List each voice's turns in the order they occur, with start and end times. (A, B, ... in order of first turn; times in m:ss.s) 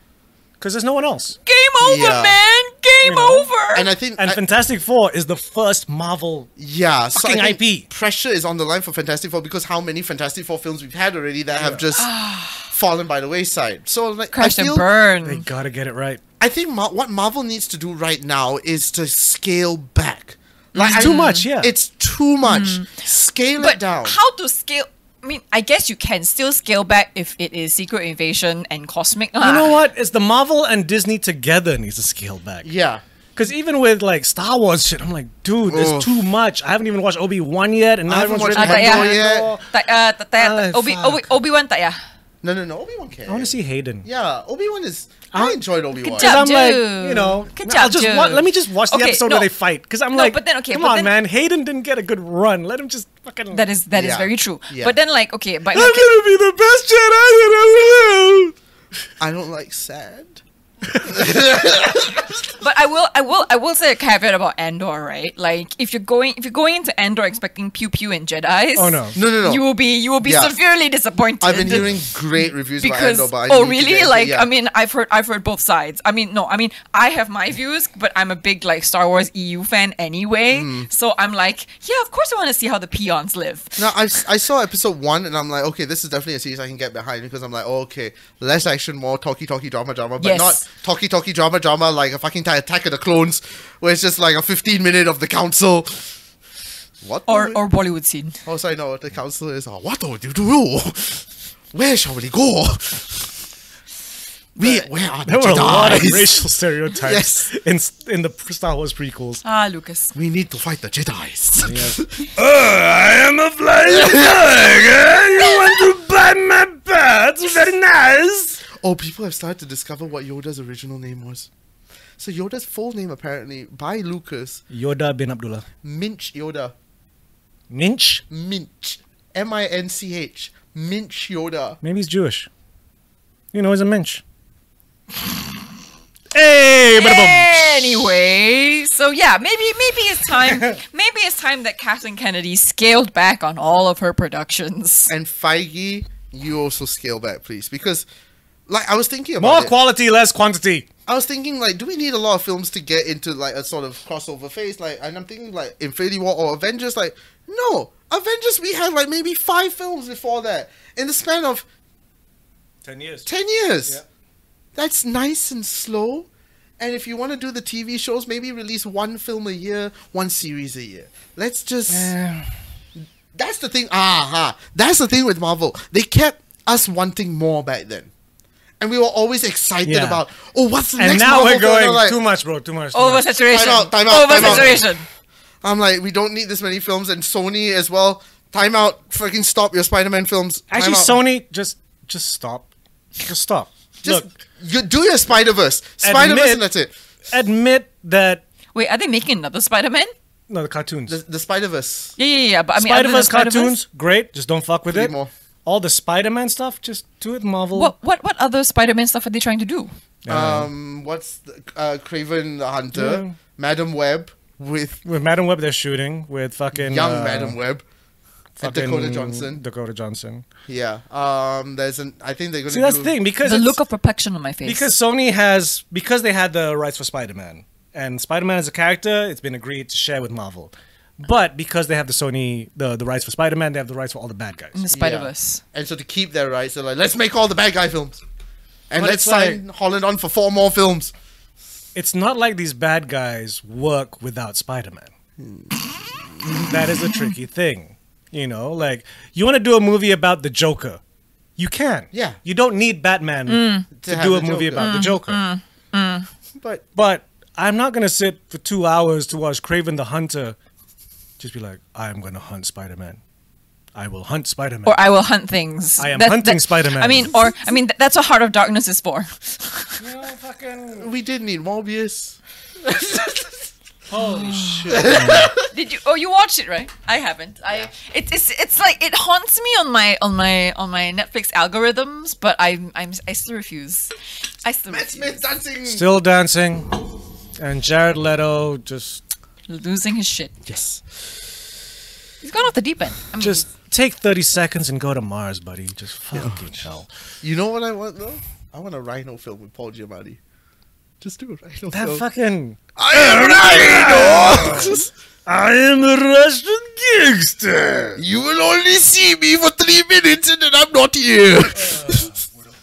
0:00.6-0:01.4 A
0:01.4-0:03.9 B
0:01.8-0:02.4 C
0:03.0-0:03.5 A
0:03.7-0:04.4 C
0:04.2-0:06.5 A
0:06.6-0:12.1 C
0:07.1-0:07.8 A
0:11.5-0:11.8 A
0:11.9-0:12.7 B
0:12.7-0:14.8 C
0:14.3-0:15.4 B
0:15.2-0:16.2 A
0:16.4-0:24.2 C
0:20.7-0:21.3 B
0:21.0-0:21.7 A
0:22.4-0:23.0 B
0:23.6-0:29.8 B
0:29.4-0:32.7 A
0:32.6-0:33.0 C
0:33.4-0:39.6 A
0:35.7-0:36.1 C
0:38.1-0:39.5 C
0:38.5-0:42.0 B
0:40.4-0:41.3 A
0:42.4-0:46.4 C
0:43.3-0:44.1 A
0:45.3-0:53.6 A
0:46.0-0:49.5 B
0:50.1-0:51.1 B
0:53.5-0:56.1 B
0:53.9-0:55.0 C
0:55.7-0:58.5 A
0:59.2-1:00.4 C
1:01.0-1:02.4 C
1:02.6-1:12.0 B
1:08.8-1:09.2 A
1:09.1-1:09.6 C
1:10.2-1:10.5 C
1:11.4-1:14.5 C
1:12.8-1:24.2 B
1:20.5-1:20.9 C
1:23.8-1:36.1 C
1:30.2-1:30.6 B
1:37.0-1:37.6 C
1:37.3-1:38.4 B
1:38.4-1:43.4 C
1:44.6-1:46.4 C
1:45.2-1:49.4 A
1:47.0-1:47.5 C
1:49.4-1:50.1 B
1:50.1-1:52.1 C
1:51.6-1:58.6 A
1:53.8-1:54.7 C
1:58.7-2:01.5 C
2:02.2-2:04.6 C
2:04.7-2:05.6 A
2:05.8-2:06.7 C
2:07.7-2:08.2 A
2:08.3-2:11.8 C
2:11.8-2:12.5 A
2:13.5-2:14.2 A
2:16.3-2:17.6 A
2:17.0-2:25.1 B
2:20.5-2:20.8 A
2:25.1-2:28.0 C
2:28.7-2:29.7 C
2:29.4-2:30.9 A
2:31.1-2:41.6 C
2:42.8-2:43.3 A
2:43.2-2:44.0 C
2:44.7-2:46.3 C
2:46.8-2:52.1 C
2:51.9-2:52.5 A
2:53.3-2:58.1 C
2:58.8-3:02.2 C
2:59.8-3:00.2 A
3:01.0-3:03.3 A
3:02.9-3:05.0 B
3:03.5-3:04.9 C
3:04.3-3:04.7 A
3:05.6-3:11.2 C
3:10.7-3:12.7 A
3:13.2-3:14.3 A
3:14.0-3:16.9 C
3:16.0-3:16.6 A
3:17.3-3:18.4 A
3:18.7-3:20.1 B
3:20.5-3:21.2 A
3:21.1-3:22.2 C
3:22.2-3:23.8 B
3:22.8-3:25.1 A
3:24.9-3:25.3 C
3:25.6-3:27.9 A
3:27.7-3:29.9 B
3:30.2-3:30.7 A
3:30.3-3:35.0 C
3:32.9-3:33.4 A
3:35.0-3:37.6 A
3:36.7-3:37.8 C
3:38.6-3:40.4 A
3:38.6-3:39.6 C
3:40.6-3:43.1 C
3:42.7-3:43.8 A
3:43.4-3:44.9 B
3:44.6-3:54.8 A
3:54.7-3:55.6 B
3:54.9-3:58.2 C
3:58.9-4:01.1 C
3:58.9-3:59.6 A
4:01.9-4:05.1 A
4:05.4-4:06.7 C
4:06.6-4:11.0 A
4:11.6-4:15.4 A
4:12.1-4:12.4 C
4:13.5-4:13.9 B
4:14.0-4:15.1 C
4:14.8-4:16.3 B
4:16.6-4:16.8 C
4:17.0-4:20.6 A
4:21.4-4:23.2 A
4:23.9-4:25.0 A
4:24.8-4:30.0 B
4:26.0-4:27.4 A
4:30.0-4:31.1 A
4:31.0-4:33.5 C
4:34.1-4:35.5 A
4:34.6-4:35.6 C
4:35.7-4:44.1 B
4:44.6-4:45.4 B
4:44.9-4:46.0 C
4:45.8-4:47.0 A
4:47.6-4:49.2 A
4:49.7-4:50.5 B
4:50.6-4:51.1 C
4:52.4-4:53.7 B
4:53.4-4:57.1 A
4:56.3-4:56.6 C
4:57.4-5:00.4 C
5:01.2-5:02.2 C
5:01.9-5:08.2 A
5:03.0-5:05.1 C
5:08.2-5:12.3 C